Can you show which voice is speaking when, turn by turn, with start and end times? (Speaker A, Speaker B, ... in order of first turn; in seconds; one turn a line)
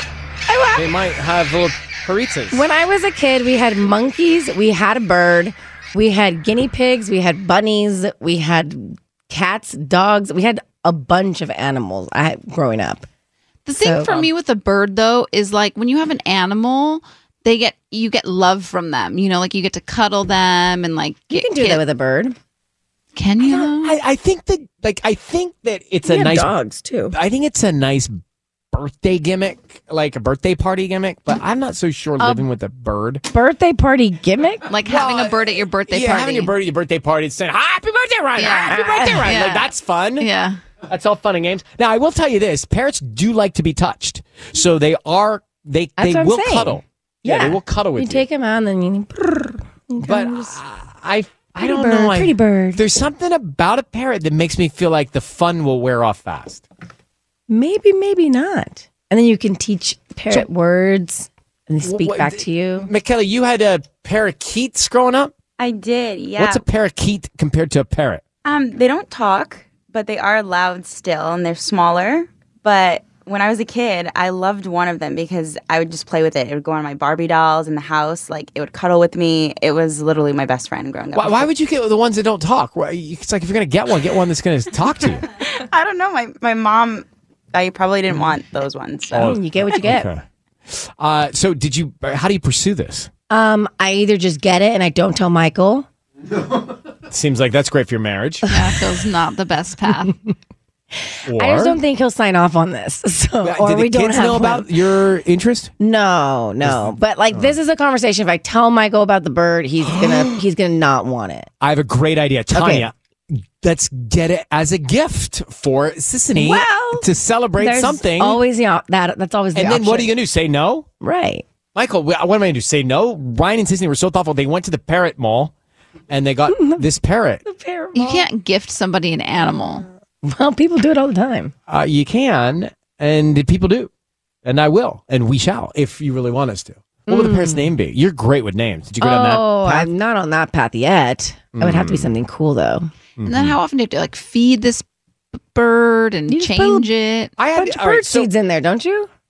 Speaker A: 0.5-0.9
Speaker B: 0.7-2.6
Speaker A: 2.5-13.1
Speaker C: 13.7-21.8
Speaker A: 13.8-14.3
Speaker A: 21.3-22.4
Speaker C: 23.1-24.0
Speaker B: 23.8-26.5
Speaker A: 26.0-27.1
Speaker B: 27.1-28.2
Speaker B: 28.7-33.2
Speaker A: 32.2-32.4
Speaker A: 33.3-34.6
Speaker C: 34.7-36.5
Speaker B: 34.9-40.3
Speaker C: 38.4-40.6
Speaker A: 38.6-39.4
Speaker B: 40.9-48.2
Speaker A: 46.0-50.6
Speaker B: 50.0-56.6
Speaker A: 51.6-52.8
Speaker A: 57.5-62.9
Speaker B: 61.8-65.3
Speaker D: 65.6-66.6
Speaker B: 66.3-68.2
Speaker D: 68.4-81.5
Speaker B: 81.1-85.2
Speaker D: 85.5-89.4
Speaker B: 89.1-93.1
Speaker A: 89.1-90.1
Speaker A: 93.3-95.9
Speaker B: 97.1-98.5
Speaker C: 98.5-100.2
Speaker B: 101.2-101.8
Speaker A: 101.3-104.7
Speaker B: 103.4-105.7
Speaker A: 105.8-111.5
Speaker B: 106.6-107.5
Speaker B: 109.9-110.4
Speaker B: 111.6-118.4
Speaker A: 112.5-112.9
Speaker A: 116.3-120.1
Speaker B: 119.5-120.9
Speaker A: 121.0-121.4
Speaker B: 121.7-125.5
Speaker B: 126.1-127.4
Speaker A: 126.5-126.8
Speaker A: 127.4-128.3
Speaker C: 127.9-129.8
Speaker A: 130.2-131.5
Speaker B: 131.7-133.9
Speaker B: 134.4-139.9
Speaker A: 137.1-137.7
Speaker A: 139.0-142.9
Speaker B: 141.6-142.1
Speaker B: 143.2-143.6
Speaker C: 143.2-144.8
Speaker C: 145.5-147.3
Speaker A: 146.3-146.9
Speaker B: 147.4-148.3
Speaker A: 147.5-149.1